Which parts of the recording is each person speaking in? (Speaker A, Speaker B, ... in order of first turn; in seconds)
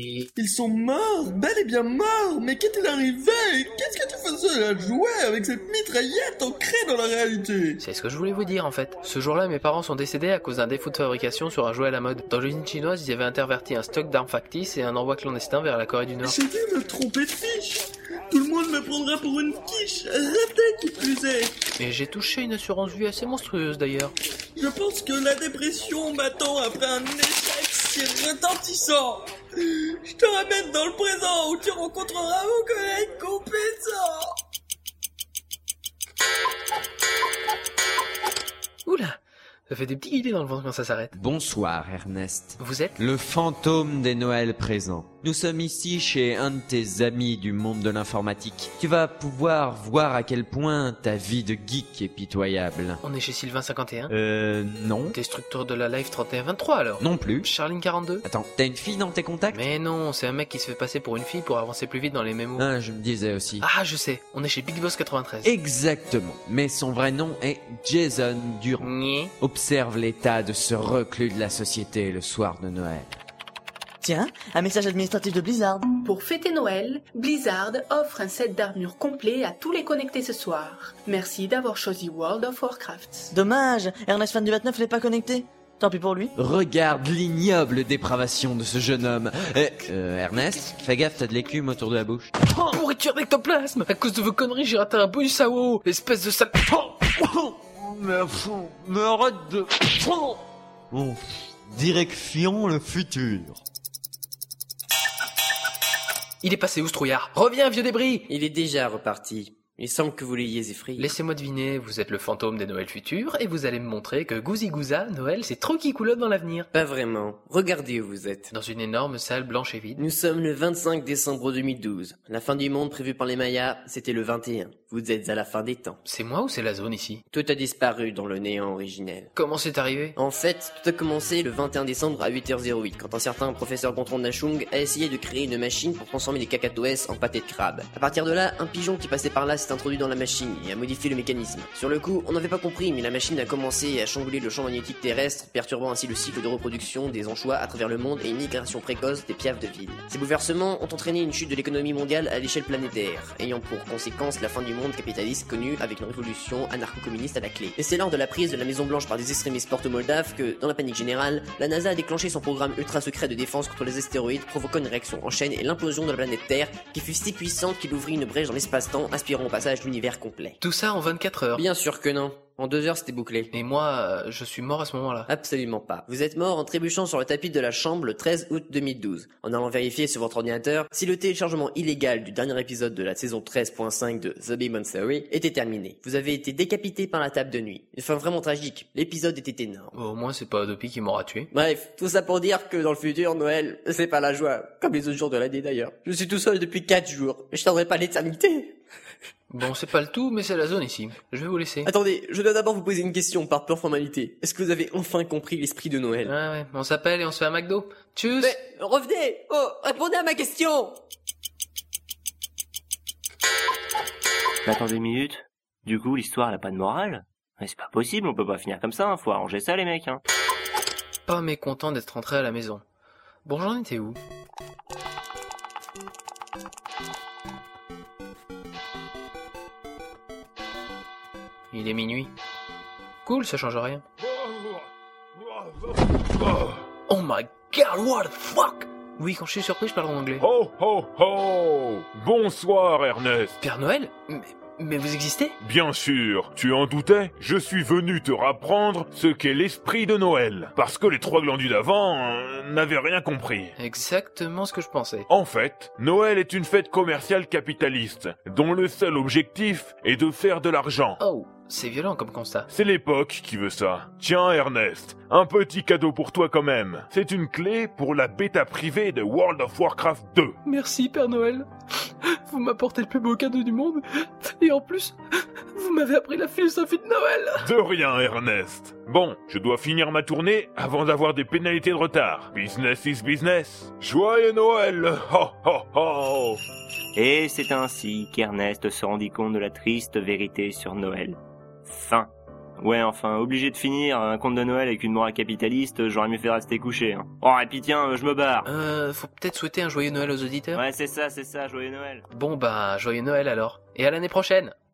Speaker A: 0.3-7.8, 16.2-21.5, 24.6-34.3
Speaker B: 7.8-16.4, 21.8-24.1, 38.9-39.2, 39.7-41.1, 42.6-43.0, 53.0-54.1, 55.1-58.2, 59.5-62.7, 63.6-65.5, 68.8-69.3, 92.6-96.5, 106.4-108.3, 111.0-116.7, 118.5-120.0, 126.0-127.2, 129.3-130.2, 170.6-171.7, 173.5-175.3, 189.9-191.5, 199.5-201.9, 206.2-208.6, 221.2-222.8, 223.4-224.2, 231.7-232.3, 233.2-234.0, 237.1-240.4, 243.6-245.5, 253.8-255.3, 261.2-262.7, 270.6-271.6, 272.4-275.1, 275.7-277.6, 298.6-300.8, 302.3-304.7
Speaker C: 41.1-53.0, 54.1-55.1, 57.0-57.5, 58.2-59.6, 62.6-63.6, 65.4-73.1, 86.3-92.3, 96.7-103.6
Speaker D: 74.0-75.8, 83.3-86.3
Speaker E: 76.0-83.3
Speaker F: 108.3-111.1, 116.7-118.5, 120.0-126.0, 127.3-129.3, 130.2-170.6, 171.5-173.5, 175.3-189.9, 191.5-198.8, 201.8-206.3, 208.4-211.0
Speaker G: 214.7-220.2, 287.1-298.7, 300.7-302.2
Speaker H: 234.2-236.8, 240.4-243.6, 245.6-253.7, 255.3-261.2, 262.7-270.6, 277.6-286.6